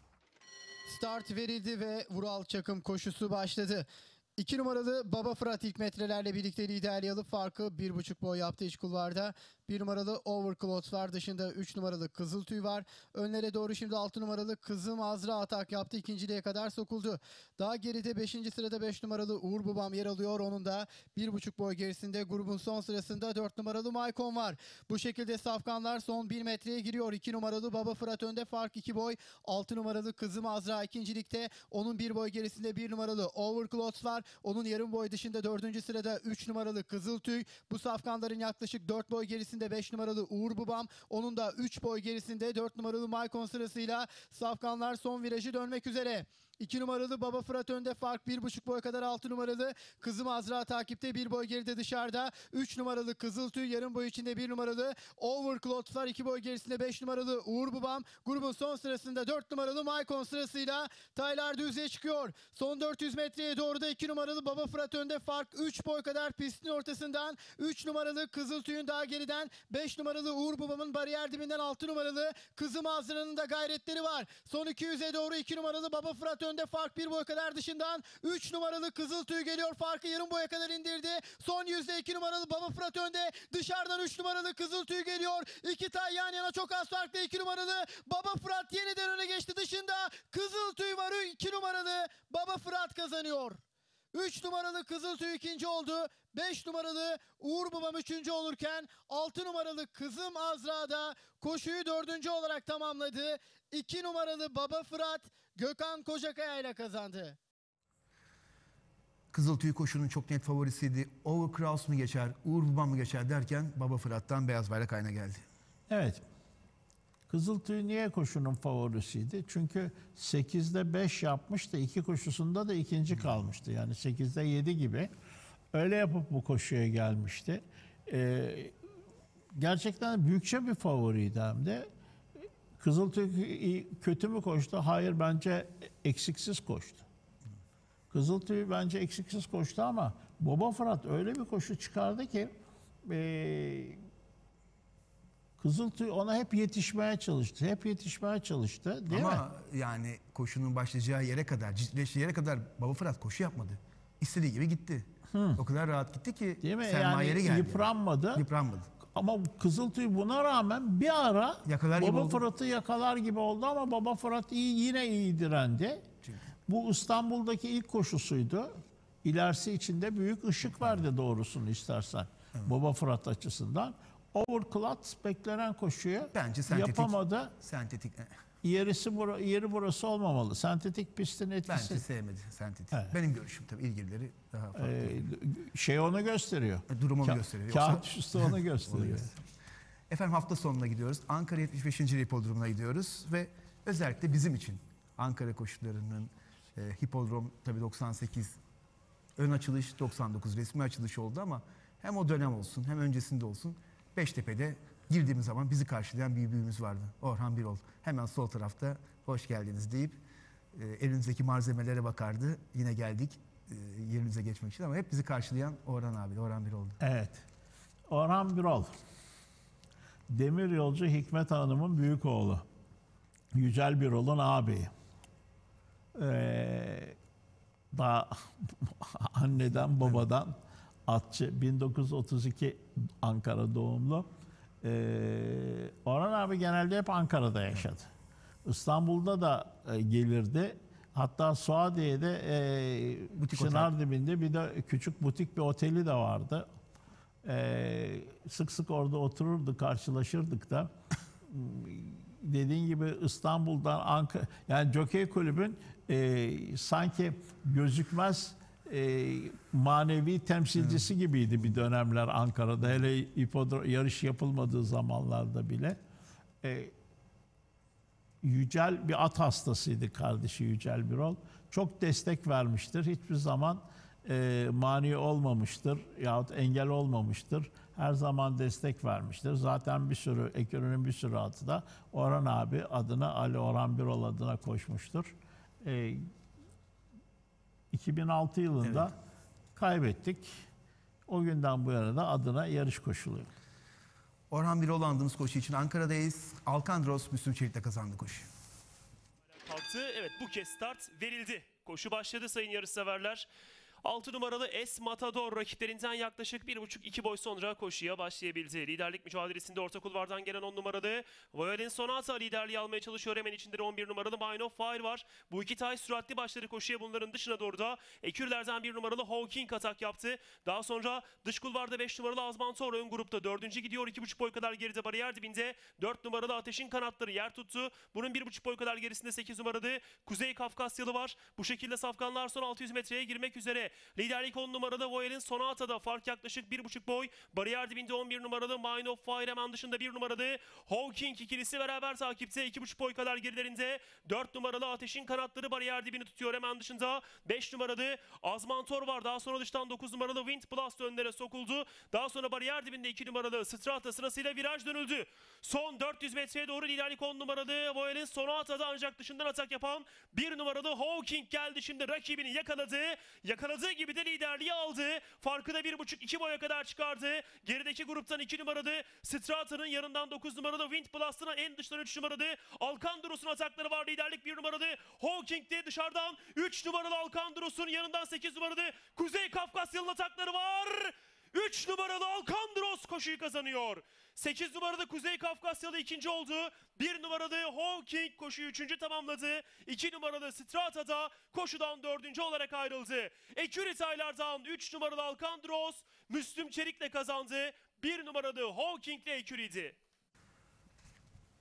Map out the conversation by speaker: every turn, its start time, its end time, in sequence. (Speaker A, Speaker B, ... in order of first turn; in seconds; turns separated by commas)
Speaker A: 0.9-93.6, Speaker A: 94.1-107.4, Speaker B: 109.3-115.4, Speaker C: 115.9-116.2, Speaker C: 117.3-125.1, Speaker C: 125.7-128.7, Speaker C: 129.6-131.9, Speaker C: 132.8-137.1, Speaker C: 138.1-142.5, Speaker C: 143.1-144.0, Speaker C: 145.6-149.4, Speaker B: 149.1-158.9, Speaker C: 155.3-155.6, Speaker C: 156.6-158.4, Speaker C: 159.1-166.1, Speaker B: 161.6-162.4, Speaker C: 166.7-177.5, Speaker B: 170.7-171.0, Speaker B: 176.3-178.4, Speaker C: 178.6-182.0, Speaker B: 181.7-185.2, Speaker C: 184.8-189.3, Speaker B: 186.9-189.4, Speaker B: 190.1-198.6, Speaker B: 199.4-210.2, Speaker B: 210.7-217.0, Speaker C: 217.0-217.4, Speaker C: 218.1-218.9, Speaker C: 220.3-222.7, Speaker C: 223.6-224.9, Speaker C: 226.1-227.2, Speaker C: 227.9-234.3, Speaker C: 234.8-238.1, Speaker C: 238.7-246.7, Speaker B: 243.4-243.9, Speaker C: 247.4-250.9, Speaker C: 251.5-266.0, Speaker B: 260.8-261.1, Speaker C: 266.6-266.9, Speaker C: 268.4-286.2, Speaker C: 287.9-289.1, Speaker B: 288.8-289.1, Speaker C: 289.7-290.6, Speaker C: 291.3-293.5, Speaker B: 294.5-298.5, Speaker D: 299.6-303.5, Speaker D: 304.0-400.0